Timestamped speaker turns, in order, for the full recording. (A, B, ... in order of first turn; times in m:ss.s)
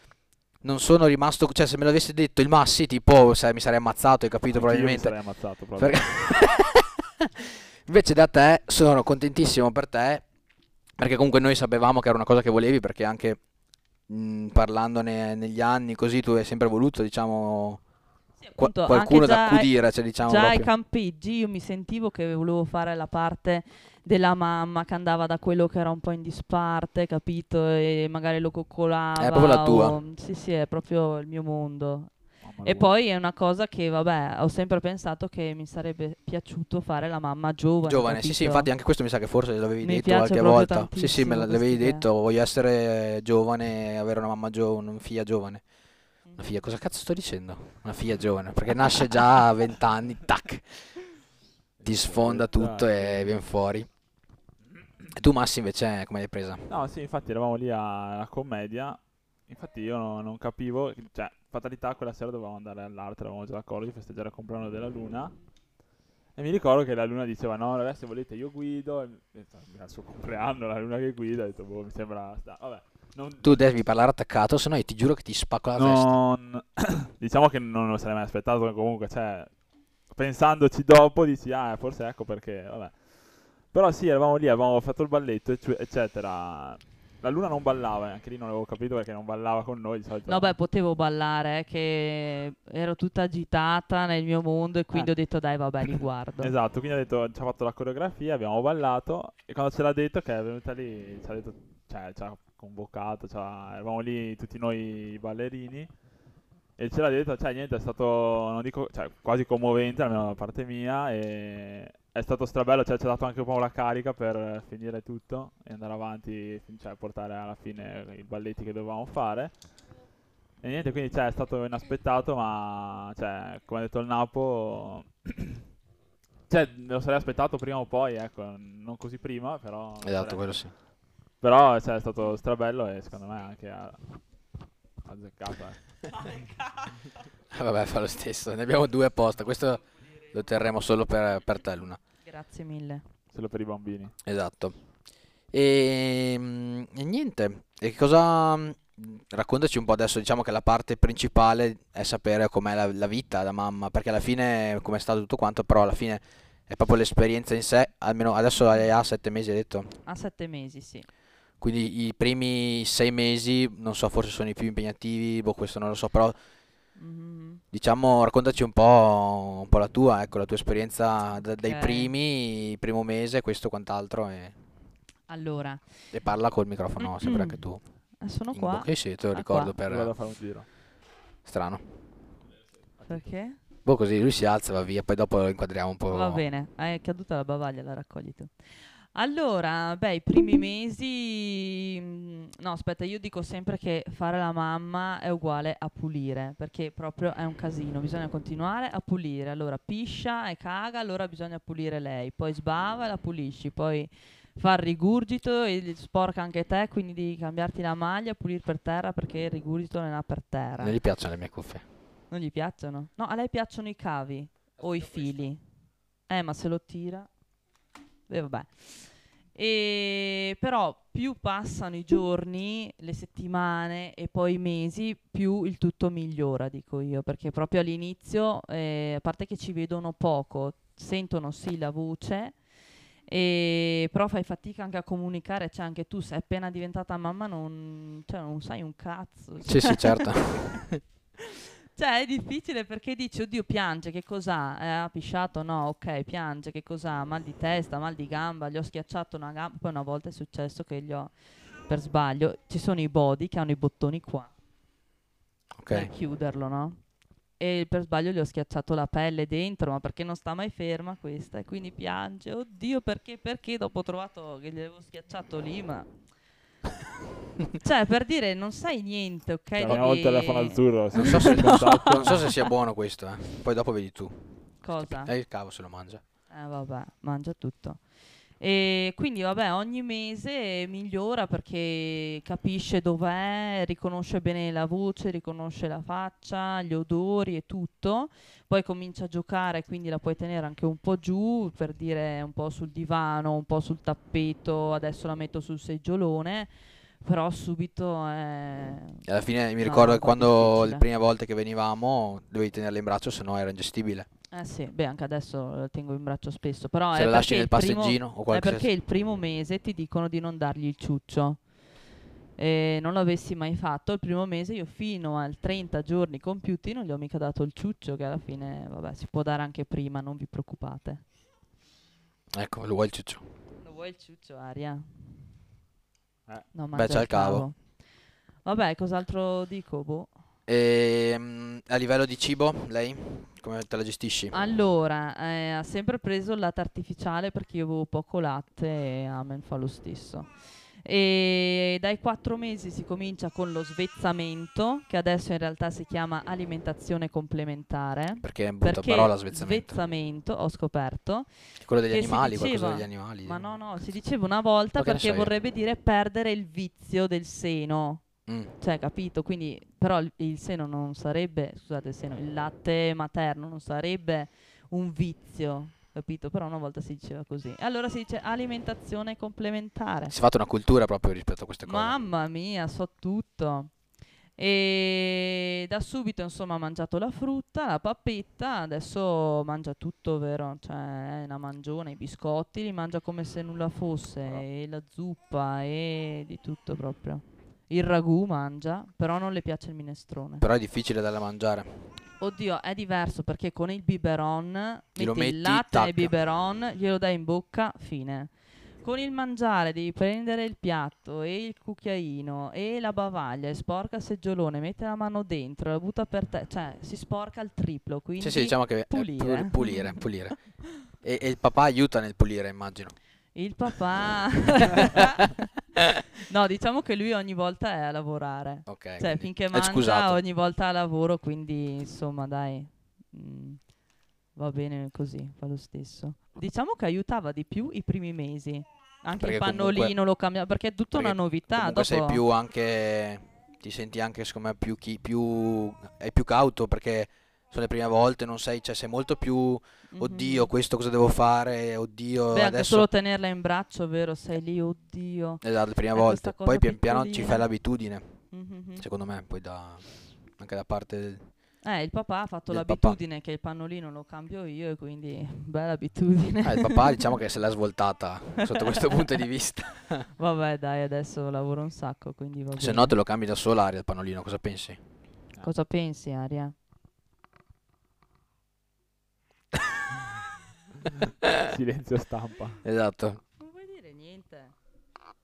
0:00.6-0:05.2 A
0:04.5-0:06.0 B
0:05.8-0:10.2 A
0:11.0-0:13.4 A
0:14.1-0:17.8 A
0:18.4-0:19.7 C
0:18.6-0:20.7 A
0:20.2-0:32.1 C
0:29.2-0:30.0 A
0:32.4-0:32.9 B
0:32.6-0:38.7 C
0:37.9-0:45.6 A
0:39.8-0:42.0 C
0:46.4-0:50.7 A
0:51.8-0:53.3 B
0:51.8-0:53.9 A
0:55.1-0:56.7 A
0:56.7-1:05.3 B
1:06.4-1:13.6 B
1:13.4-1:16.2 A
1:15.8-1:19.5 B
1:20.1-1:23.0 B
1:23.7-1:30.5 B
1:30.2-1:36.5 C
1:36.4-1:45.9 B
1:46.8-1:59.5 B
2:00.6-2:05.6 B
2:06.5-2:10.4 B
2:10.0-2:10.7 A
2:11.4-2:14.0 B
2:15.0-2:15.8 B
2:17.5-2:22.0 A
2:22.2-2:23.0 C
2:23.3-2:24.1 B
2:24.2-2:24.7 A
2:25.5-2:39.9 A
2:40.0-2:41.1 C
2:41.6-2:46.4 A
2:47.0-2:47.6 C
2:47.7-2:54.5 A
2:51.6-2:52.1 C
2:55.3-2:55.8 C
2:56.1-2:57.8 A
2:57.0-2:57.6 C
2:58.2-2:59.7 C
2:58.5-3:00.1 A
2:59.8-3:00.7 B
3:01.4-3:01.8 A
3:02.9-3:03.3 B
3:03.1-3:03.6 C
3:03.8-3:06.4 A
3:06.1-3:08.5 C
3:09.1-3:31.0 C
3:30.8-3:31.8 A
3:32.3-3:35.6 C
3:36.3-3:37.3 C
3:38.3-3:52.5 C
3:53.3-4:00.7 C
3:59.6-4:01.0 A
4:01.4-4:11.3 C
4:11.9-4:14.5 C
4:15.8-4:16.1 A
4:15.9-4:17.0 C
4:17.6-4:26.1 C
4:27.7-4:32.6 C
4:29.8-4:32.4 B
4:31.2-4:36.2 A
4:34.8-4:35.3 C
4:36.5-4:38.0 C
4:38.6-4:56.7 C
4:57.2-4:59.2 C
4:59.3-5:04.3 A
4:59.8-5:01.0 C
5:04.5-5:11.6 C
5:07.1-5:08.9 A
5:12.6-5:21.2 C
5:22.5-5:23.4 A
5:23.8-5:25.1 C
5:26.7-5:27.7 C
5:26.9-5:27.7 A
5:28.6-5:30.3 C
5:30.7-5:34.5 A
5:34.5-5:40.5 C
5:41.0-5:51.5 C
5:48.4-5:50.0 A
5:51.8-5:53.6 A
5:52.1-5:58.2 C
5:55.0-5:55.5 A
5:58.5-5:58.7 A
5:58.8-6:10.3 C
6:10.3-6:12.2 A
6:11.8-6:13.9 C
6:14.6-6:30.6 C
6:30.6-6:32.0 A
6:32.4-6:38.5 C
6:35.2-6:36.3 A
6:39.0-6:50.2 C
6:48.4-6:50.6 A
6:51.2-6:53.1 A
6:53.6-6:55.7 C
6:54.9-6:55.3 A
6:56.4-7:03.8 C
6:58.9-7:00.4 A
7:04.6-7:12.4 C
7:09.4-7:10.1 A
7:11.1-7:23.1 A
7:20.1-7:20.7 C
7:22.5-7:27.6 C
7:25.6-7:28.3 A
7:28.5-7:29.0 C
7:29.0-7:30.0 A
7:30.6-7:31.4 A
7:31.8-7:37.3 C
7:32.7-7:33.2 A
7:36.6-7:40.3 A
7:38.6-7:39.3 C
7:40.4-7:43.1 C
7:42.8-7:45.0 A
7:45.6-7:46.7 C
7:51.6-7:52.8 B
7:52.8-7:53.4 A
7:53.6-7:54.7 C